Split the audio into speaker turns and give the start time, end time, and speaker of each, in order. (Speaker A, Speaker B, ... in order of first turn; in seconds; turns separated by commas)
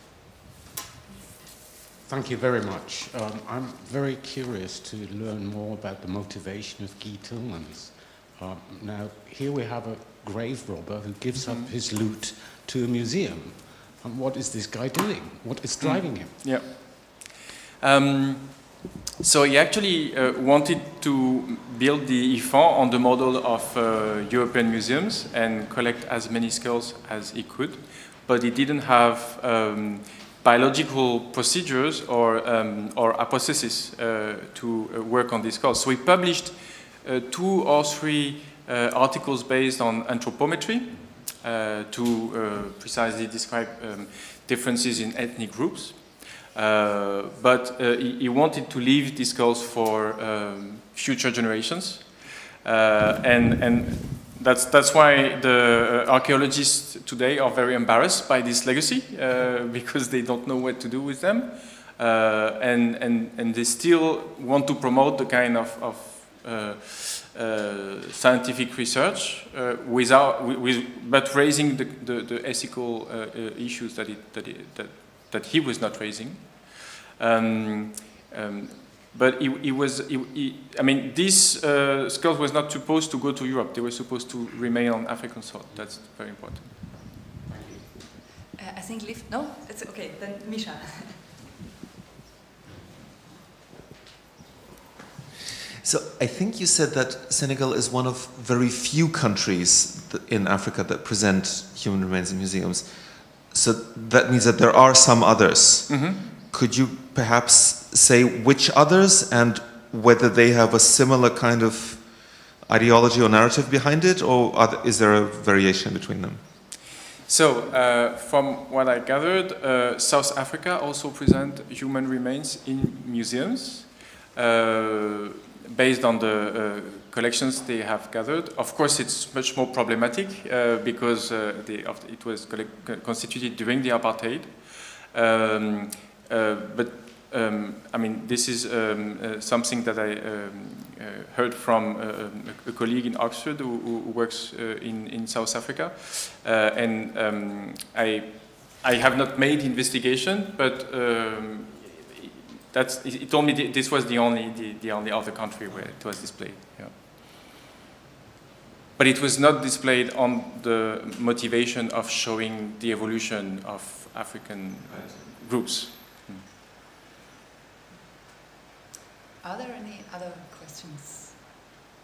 Speaker A: 2.0-16.5, Speaker B: 11.4-11.7, Speaker B: 15.8-86.7, Speaker A: 87.5-87.9, Speaker C: 88.5-91.3, Speaker D: 95.8-116.4, Speaker B: 105.9-106.2, Speaker B: 117.3-156.9, Speaker B: 158.9-166.4, Speaker C: 169.4-171.4